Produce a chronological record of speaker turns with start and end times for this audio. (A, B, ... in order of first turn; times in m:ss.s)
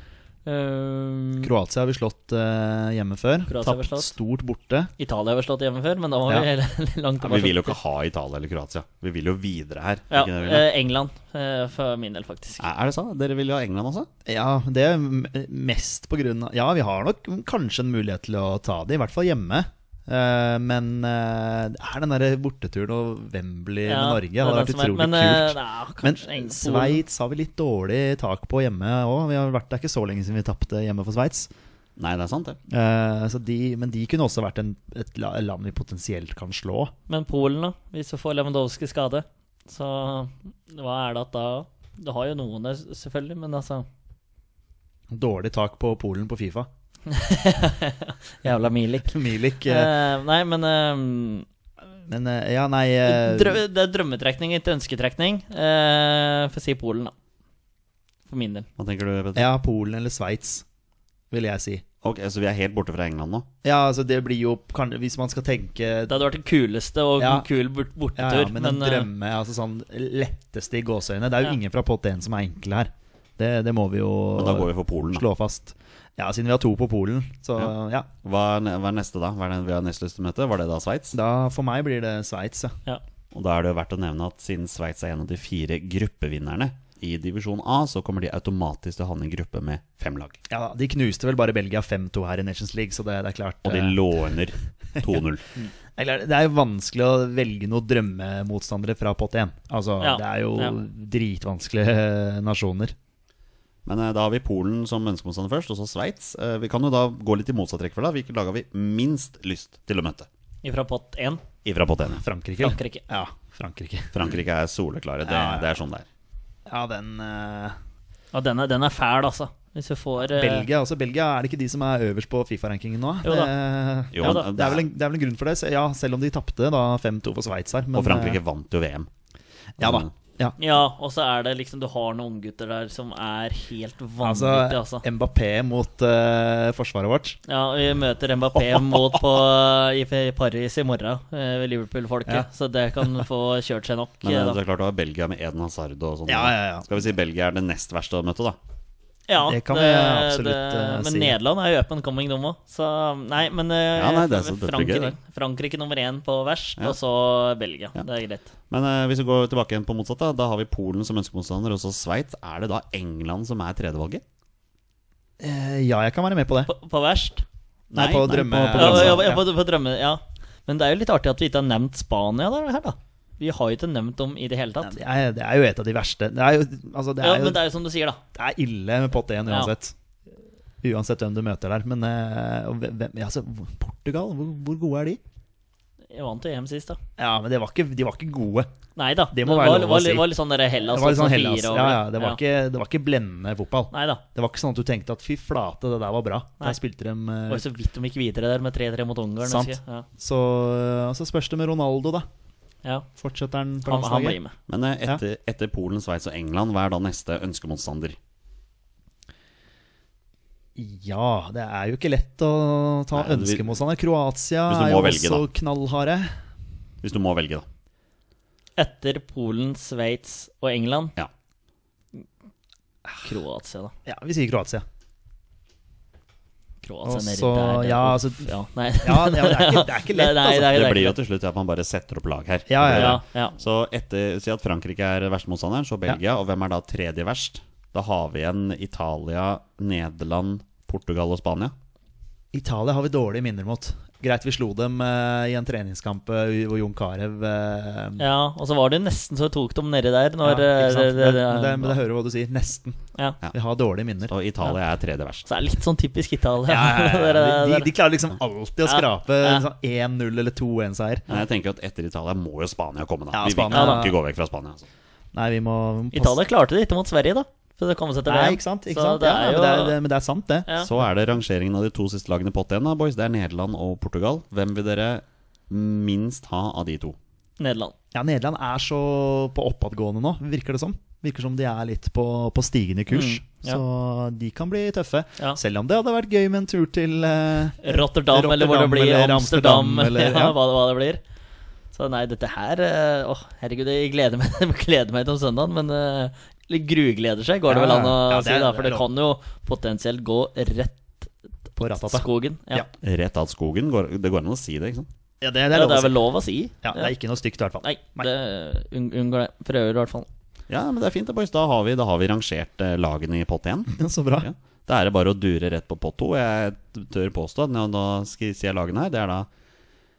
0:00.4-0:01.5 A
0:01.4-0:04.9 B
0:03.5-0:04.1 A
0:05.0-0:07.8 A
0:07.2-0:10.7 C
0:10.1-0:12.6 A
0:12.6-0:14.1 C
0:14.3-0:31.5 B
0:23.8-0:27.0 A
0:32.0-0:32.6 C
0:32.7-0:36.9 B
0:37.1-0:43.8 A
0:45.1-0:46.7 B
0:47.1-0:49.1 A
0:49.1-0:49.9 B
0:49.6-0:51.4 A
0:52.1-0:53.6 B
0:53.0-0:57.1 A
0:58.3-0:58.7 A
0:58.8-0:59.5 C
0:59.3-1:00.6 B
1:01.3-1:01.8 B
1:02.0-1:03.5 C
1:03.6-1:06.1 B
1:06.0-1:09.1 A
1:07.2-1:07.4 B
1:08.2-1:18.1 B
1:14.4-1:15.2 C
1:18.2-1:21.1 C
1:21.1-1:22.8 B
1:23.3-1:30.4 C
1:30.5-1:34.0 B
1:33.6-1:35.4 C
1:36.0-1:42.9 B
1:40.0-1:40.7 A
1:43.8-1:50.3 C
1:50.6-1:51.4 A
1:51.6-1:52.2 C
1:52.2-1:54.2 B
1:52.6-1:53.0 A
1:54.1-1:56.1 C
1:55.2-1:55.7 B
1:56.7-1:57.8 B
1:58.3-2:00.7 A
2:00.2-2:08.4 B
2:03.2-2:03.5 A
2:04.1-2:04.8 C
2:04.2-2:04.5 A
2:07.9-2:09.1 C
2:09.8-2:10.1 C
2:09.8-2:10.6 B
2:10.6-2:15.0 A
2:14.2-2:17.4 B
2:17.5-2:24.6 A
2:18.7-2:19.2 B
2:24.2-2:28.6 C
2:26.3-2:26.9 B
2:29.3-2:38.5 A
2:29.4-2:31.4 B
2:33.9-2:35.1 C
2:38.7-2:44.2 C
2:45.4-2:46.7 B
2:46.7-2:47.4 A
2:47.9-2:49.3 C
2:47.9-2:49.4 B
2:48.7-2:55.0 A
2:54.8-2:57.6 B
2:57.2-2:58.2 A
2:58.3-2:59.9 B
3:00.8-3:05.2 B
3:06.1-3:07.0 A
3:07.2-3:08.7 B
3:09.0-3:12.4 A
3:09.3-3:10.3 B
3:10.8-3:17.6 B
3:13.9-3:14.2 A
3:17.5-3:20.0 A
3:19.4-3:22.2 B
3:23.2-3:24.4 B
3:23.8-3:24.5 A
3:24.7-3:28.2 C
3:30.8-3:36.3 B
3:33.1-3:33.7 C
3:34.7-3:35.4 C
3:37.0-3:37.6 C
3:38.8-3:41.1 A
3:43.2-3:43.9 A
3:44.0-3:44.8 B
3:46.8-3:51.1 A
3:47.0-3:51.0 B
3:50.7-4:01.7 C
3:52.7-3:53.2 B
3:52.9-3:53.5 A
4:02.5-4:08.2 B
4:08.2-4:12.0 A
4:10.4-4:13.0 B
4:13.5-4:14.3 B
4:14.3-4:15.4 C
4:15.4-4:17.9 A
4:16.7-4:21.3 B
4:18.8-4:19.6 A
4:21.3-4:24.9 C
4:23.3-4:24.2 B
4:23.7-4:24.0 A
4:25.3-4:26.4 B
4:26.1-4:30.0 A
4:28.3-4:30.7 B
4:30.8-4:37.2 C
4:37.6-4:37.9 A
4:38.1-4:50.6 B
4:43.1-4:43.8 A
4:47.8-4:51.2 A
4:51.9-5:02.9 A
4:57.7-4:59.0 B
5:01.8-5:02.9 B
5:03.0-5:05.1 C
5:05.4-5:06.2 B
5:05.7-5:07.1 A
5:06.8-5:08.3 B
5:07.8-5:10.3 A
5:10.7-5:19.5 C
5:13.9-5:14.5 B